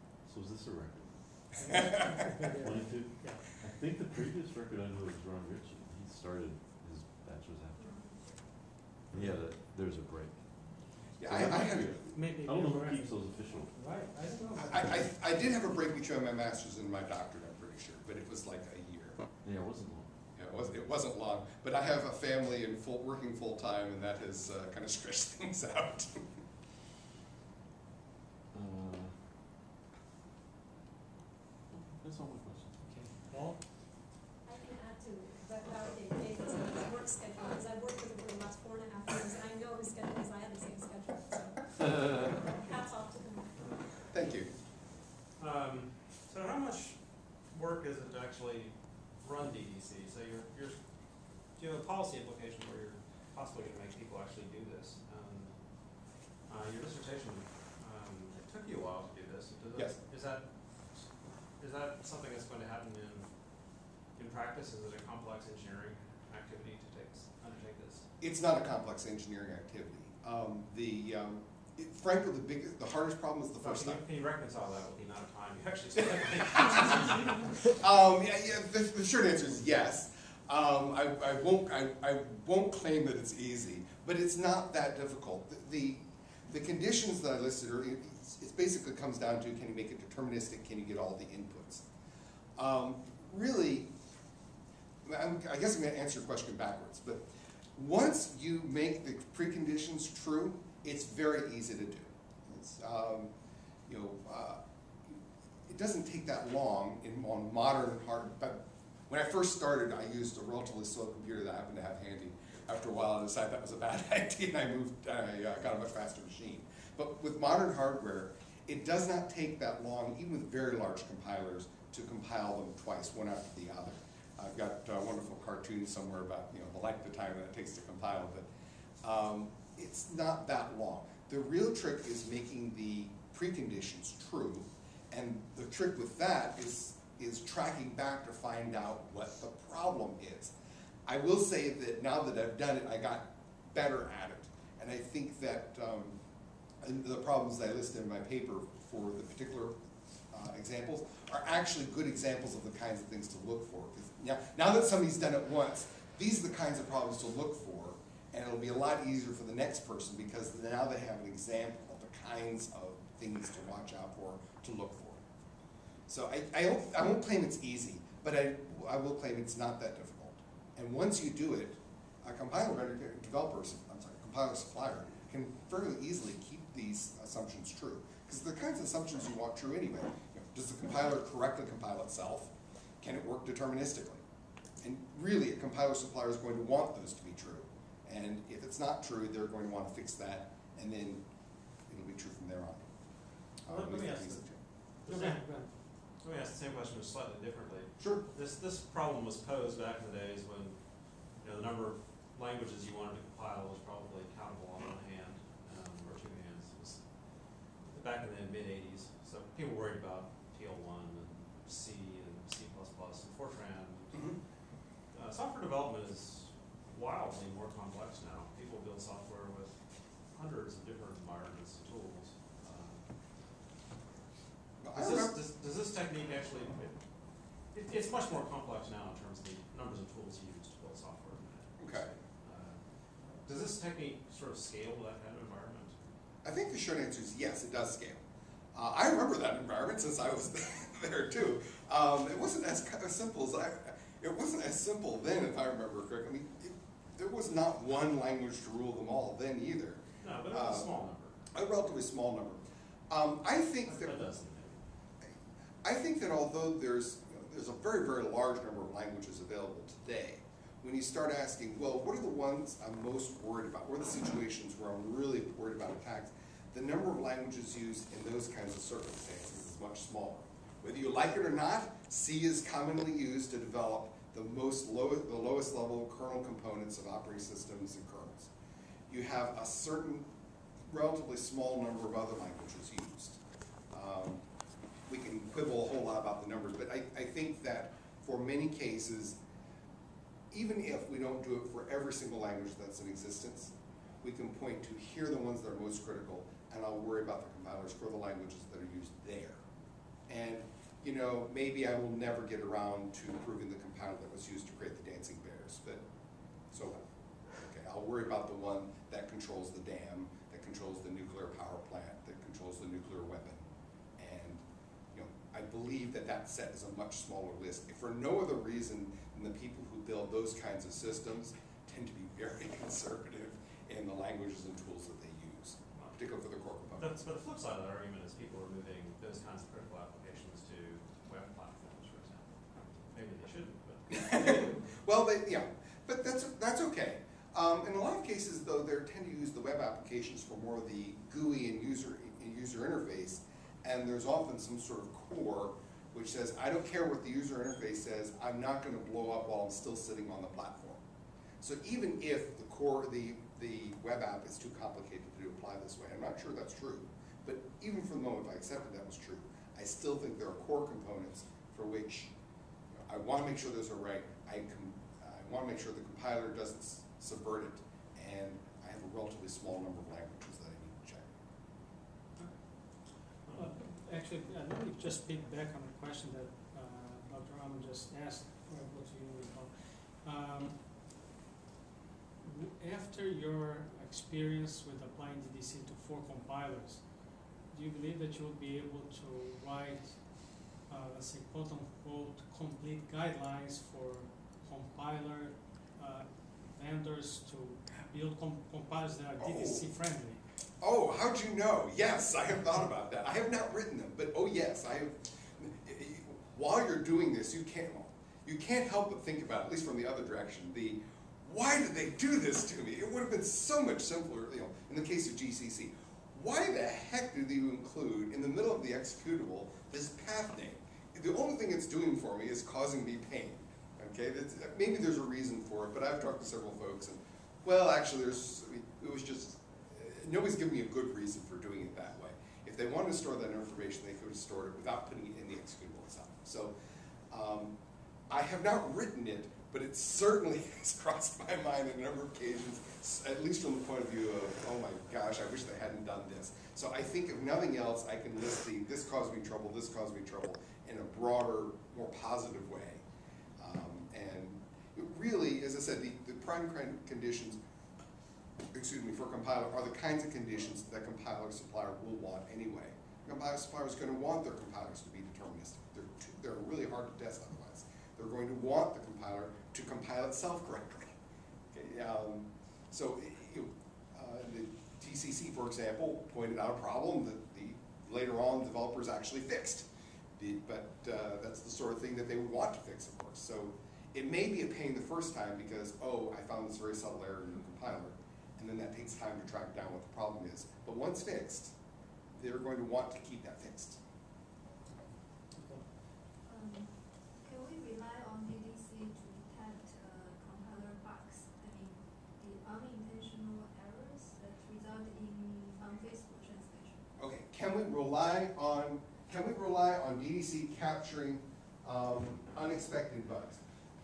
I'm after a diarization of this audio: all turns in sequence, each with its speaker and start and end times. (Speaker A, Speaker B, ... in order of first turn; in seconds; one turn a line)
Speaker A: 0.2-2.0
Speaker B: 1.5-3.5
Speaker C: 1.7-2.1
Speaker A: 2.6-7.8
Speaker D: 7.8-8.2
Speaker A: 9.1-10.5
Speaker C: 11.2-12.1
Speaker A: 11.2-13.8
Speaker B: 12.1-15.1
Speaker C: 14.6-19.2
Speaker A: 19.4-20.7
Speaker C: 20.4-26.2
Speaker A: 28.5-29.2
Speaker A: 31.7-32.8
Speaker B: 32.8-33.7
Speaker D: 34.4-43.8
Speaker A: 41.8-42.1
Speaker C: 44.1-44.5
Speaker E: 45.4-50.8
Speaker E: 51.5-55.5
Speaker E: 56.5-60.4
Speaker E: 61.6-63.3
Speaker E: 64.1-68.0
Speaker C: 68.2-74.0
Speaker E: 73.6-77.7
Speaker C: 76.5-77.1
Speaker C: 77.6-91.8
Speaker C: 92.6-93.9
Speaker C: 95.0-97.2
Speaker C: 97.7-103.3
Speaker C: 103.9-105.1
Speaker C: 105.7-128.5
Speaker C: 129.0-140.5
Speaker C: 141.1-146.2
Speaker C: 146.8-149.7
Speaker C: 150.3-165.2
Speaker C: 166.1-184.2
Speaker C: 184.8-191.2
Speaker C: 191.9-192.9
Speaker C: 193.6-194.6
Speaker E: 193.7-194.4
Speaker E: 195.0-195.5
Speaker B: 195.1-195.7
Speaker E: 196.2-200.8
Speaker C: 198.0-198.2
Speaker E: 201.4-207.0
Speaker E: 207.8-214.3
Speaker C: 214.1-214.4
Speaker E: 215.1-219.7
Speaker E: 220.3-223.0
Speaker C: 224.8-225.3
Speaker E: 224.9-226.9
Speaker E: 227.7-232.8
Speaker C: 231.8-232.1
Speaker E: 233.4-236.0
Speaker C: 236.4-238.2
Speaker C: 238.7-250.9
Speaker E: 250.2-251.4
Speaker C: 251.5-254.2
Speaker E: 253.8-254.8
Speaker C: 255.8-278.5
Speaker C: 279.1-280.3
Speaker C: 280.9-283.4
Speaker C: 283.9-284.4
Speaker C: 285.1-289.4
Speaker C: 290.5-299.6
Speaker C: 300.3-306.0
Speaker C: 306.7-307.0
Speaker C: 307.6-313.7
Speaker C: 314.2-327.1
Speaker E: 327.0-334.8
Speaker C: 334.1-351.0
Speaker C: 351.6-362.3
Speaker C: 363.1-371.3
Speaker B: 372.4-372.7
Speaker E: 373.4-373.7
Speaker B: 373.5-380.9
Speaker B: 382.4-400.4
Speaker C: 399.4-399.9
Speaker C: 400.8-436.7
Speaker C: 437.3-437.8
Speaker C: 438.3-453.0
Speaker C: 453.6-457.6
Speaker C: 458.7-471.1
Speaker C: 471.7-479.9
Speaker C: 480.4-491.7
Speaker C: 492.4-494.0
Speaker B: 495.5-495.9
Speaker F: 496.4-507.1
Speaker C: 507.2-513.6